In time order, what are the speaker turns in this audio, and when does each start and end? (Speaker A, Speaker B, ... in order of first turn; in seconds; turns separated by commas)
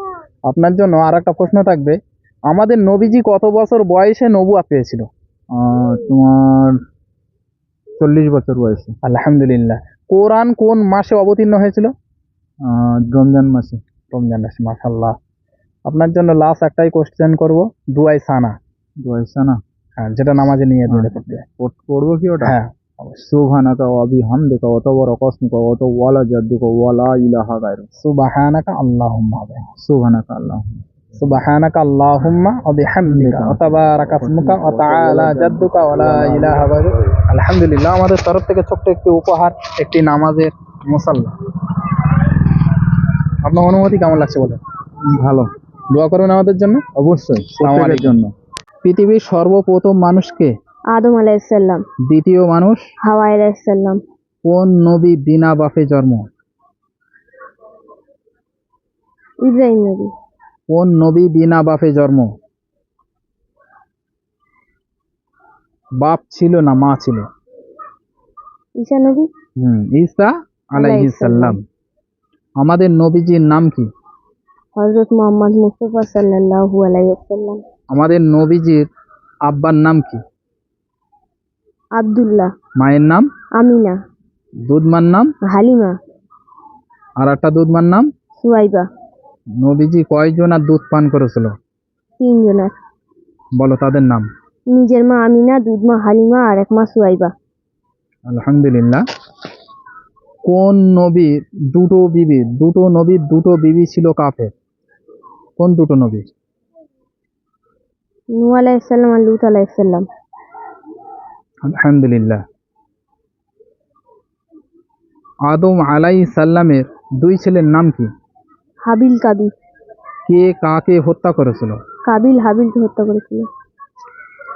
Speaker A: 0.5-2.0, Speaker A: 2.5-5.1, Speaker B: 5.5-6.8, Speaker B: 8.0-8.9, Speaker A: 9.0-11.9, Speaker B: 12.7-13.8, Speaker A: 14.1-15.1, Speaker A: 15.9-18.5, Speaker B: 19.0-19.6, Speaker A: 20.0-21.4, Speaker B: 20.9-22.5, Speaker A: 22.4-23.2, Speaker B: 23.3-27.9, Speaker A: 28.0-29.6, Speaker B: 29.8-30.8, Speaker A: 31.2-41.3, Speaker B: 33.0-36.8, Speaker A: 43.4-44.6, Speaker B: 45.1-45.5, Speaker A: 45.9-46.8, Speaker B: 47.0-48.3, Speaker A: 47.6-48.2, Speaker A: 48.8-50.5, Speaker C: 50.9-51.8, Speaker A: 52.1-52.8, Speaker C: 53.0-54.0, Speaker A: 54.4-56.2, Speaker C: 59.4-60.1, Speaker A: 60.7-62.3, Speaker A: 66.0-67.3, Speaker C: 68.8-69.3, Speaker A: 69.6-71.6, Speaker C: 70.8-71.6, Speaker A: 72.6-73.9, Speaker C: 74.8-77.6, Speaker A: 77.9-78.9, Speaker A: 79.5-80.2, Speaker C: 82.0-82.5, Speaker A: 82.8-83.3, Speaker C: 83.6-84.0, Speaker A: 84.7-85.3, Speaker C: 85.5-86.0, Speaker A: 87.2-88.1, Speaker C: 88.4-88.9, Speaker A: 89.6-91.5, Speaker C: 92.2-92.7, Speaker A: 93.6-94.3, Speaker C: 94.7-97.3, Speaker A: 98.3-99.0, Speaker A: 100.5-104.5, Speaker A: 105.6-106.2, Speaker C: 108.4-110.0, Speaker A: 111.6-112.4, Speaker A: 115.5-118.1, Speaker C: 118.8-119.5, Speaker A: 120.3-121.8, Speaker C: 122.1-123.5